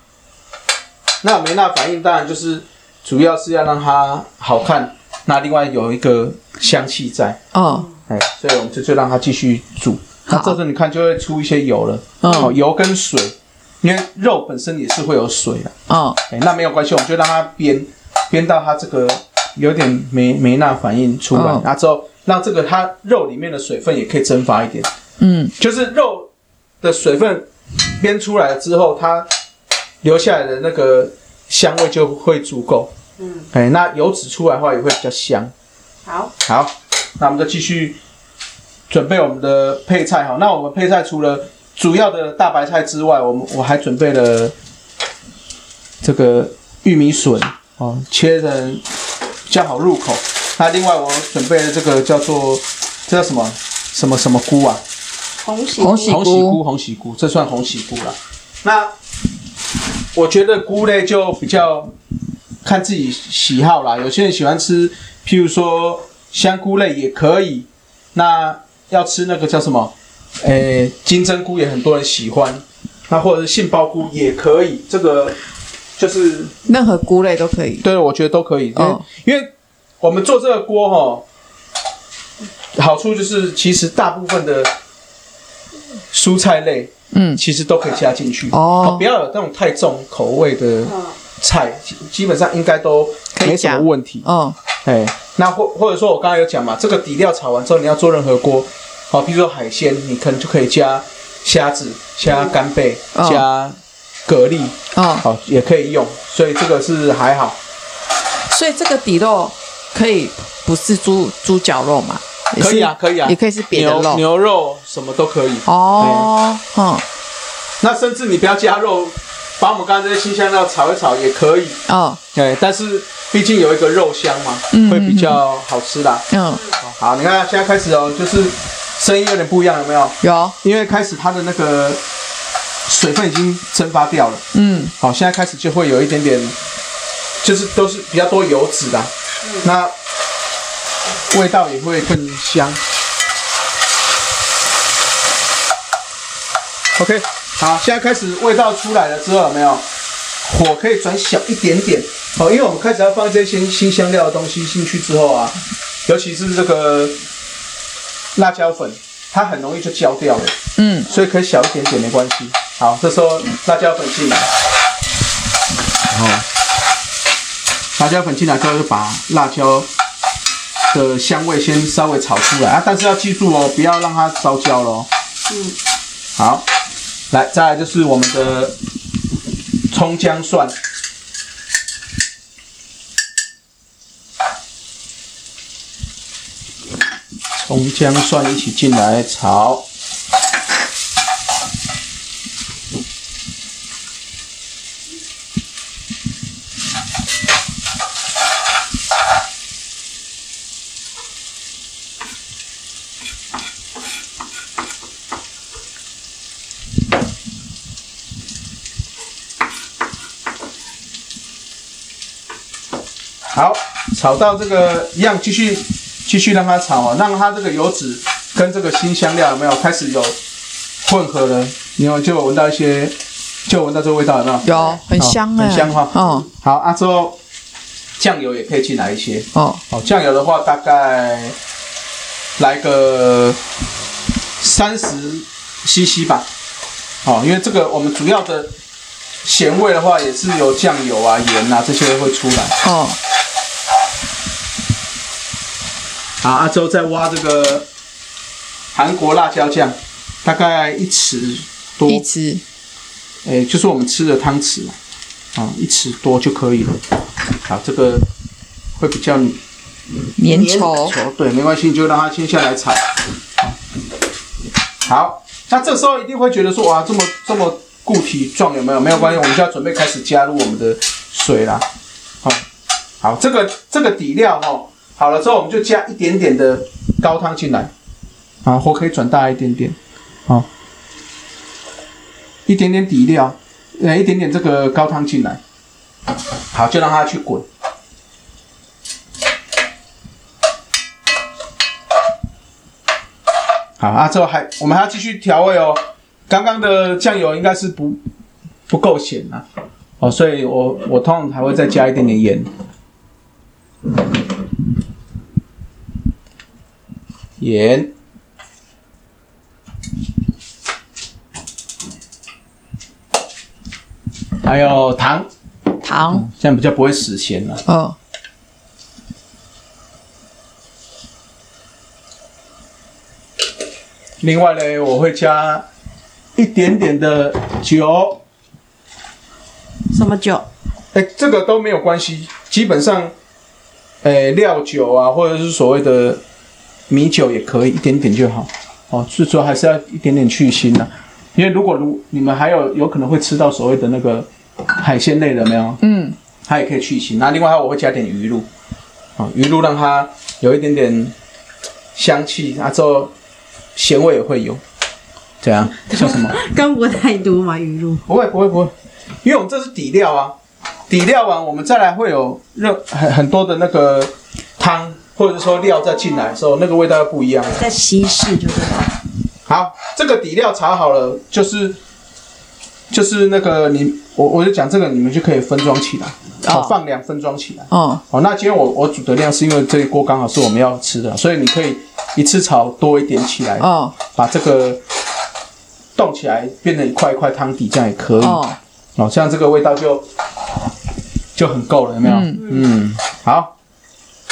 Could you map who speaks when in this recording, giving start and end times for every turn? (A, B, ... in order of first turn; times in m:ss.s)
0:01.2-0:07.4 A
0:07.5-0:07.9 B
0:07.7-0:07.9 C
0:08.1-0:15.7 A
0:10.3-0:10.6 B
0:12.2-0:12.5 B
0:12.2-0:12.5 C
0:15.9-0:16.2 B
0:16.3-0:24.9 A
0:21.3-0:21.6 B
0:25.2-0:25.5 B
0:25.6-0:26.3 A
0:26.8-0:27.5 A
0:28.0-0:29.3 A
0:30.0-0:32.9 A
0:33.2-0:33.5 C
0:33.5-0:35.5 A
0:36.0-0:36.3 C
0:36.4-0:38.0 A
0:38.9-0:44.5 A
0:46.0-0:48.8 A
0:49.5-0:54.8 A
0:55.4-0:56.2 C
0:55.8-0:56.6 B
0:56.1-0:58.9 A
1:00.1-1:01.9 A
1:02.6-1:15.4 A
1:16.0-1:16.5 A
1:16.6-1:17.8 B
1:17.8-1:21.2 A
1:18.8-1:19.0 B
1:22.7-1:24.7 A
1:26.1-1:34.3 A
1:27.1-1:27.4 B
1:28.5-1:29.0 B
1:33.3-1:34.6 B
1:34.8-1:47.6 A
1:43.1-1:43.4 B
1:44.9-1:45.2 B
1:48.5-1:54.2 B
1:52.6-1:56.3 A
1:55.6-1:57.0 B
1:57.8-2:01.8 A
2:01.9-2:02.2 B
2:02.3-2:06.2 A
2:04.7-2:05.4 B
2:06.3-2:06.6 B
2:06.8-2:12.0 A
2:10.2-2:10.6 B
2:12.9-2:14.4 A
2:14.5-2:14.9 B
2:15.0-2:16.6 A
2:17.4-2:19.9 A
2:21.3-2:22.8 A
2:27.0-2:29.8 A
2:30.4-2:37.2 A
2:38.3-2:44.5 A
2:40.8-2:41.1 B
2:46.1-2:46.4 A
2:48.0-2:49.9 A
2:50.9-2:55.1 A
2:55.5-2:55.8 C
2:56.4-2:56.6 A
2:57.3-2:58.8 A
2:59.9-3:00.7 A
3:07.5-3:09.8 A
3:33.5-3:40.4 A
3:41.0-3:43.2 A
3:43.7-3:47.4 A
3:44.6-3:46.5 B
3:48.2-3:51.6 A
3:49.5-3:49.8 B
3:52.6-3:53.6 A
3:54.6-3:56.5 A
3:57.2-3:58.7 A
3:59.4-4:02.8 A
4:02.8-4:03.2 B
4:06.4-4:07.9 A
4:08.9-4:12.2 A
4:12.0-4:12.6 B
4:13.4-4:15.0 A
4:15.5-4:17.0 A
4:17.6-4:18.2 A
4:19.0-4:19.6 A
4:20.4-4:21.1 B
4:20.4-4:23.8 A
4:25.0-4:31.8 A
4:33.2-4:37.9 A
4:38.6-4:40.7 A
4:42.6-4:45.6 A
4:46.7-4:47.6 A
4:54.0-4:58.2 A
4:58.9-4:59.6 A
5:00.2-5:02.7 A
5:07.6-5:08.1 A
5:14.6-5:15.5 A
5:16.0-5:16.5 B
5:16.2-5:17.8 A
5:17.9-5:18.2 B
5:24.4-5:25.9 A
5:26.6-5:28.4 A
5:30.1-5:30.6 C
5:31.1-5:33.3 A
5:34.2-5:36.4 A
5:37.1-5:46.0 A
5:46.0-5:46.4 B
5:46.6-5:48.7 A
5:49.4-5:51.3 A
5:52.1-5:53.3 A
5:53.9-5:54.8 A
5:55.6-5:56.6 A
5:56.1-5:58.2 C
5:58.3-5:58.9 A
5:59.4-6:00.5 A
6:01.1-6:07.8 A
6:07.8-6:09.1 C
6:09.7-6:12.0 A
6:13.1-6:25.0 A
6:16.6-6:17.0 B
6:17.9-6:18.2 B
6:23.8-6:24.2 B
6:26.2-6:28.6 A
6:28.4-6:28.8 B
6:29.2-6:30.3 A
6:31.5-6:33.7 A
6:32.2-6:32.6 B
6:32.6-6:32.8 C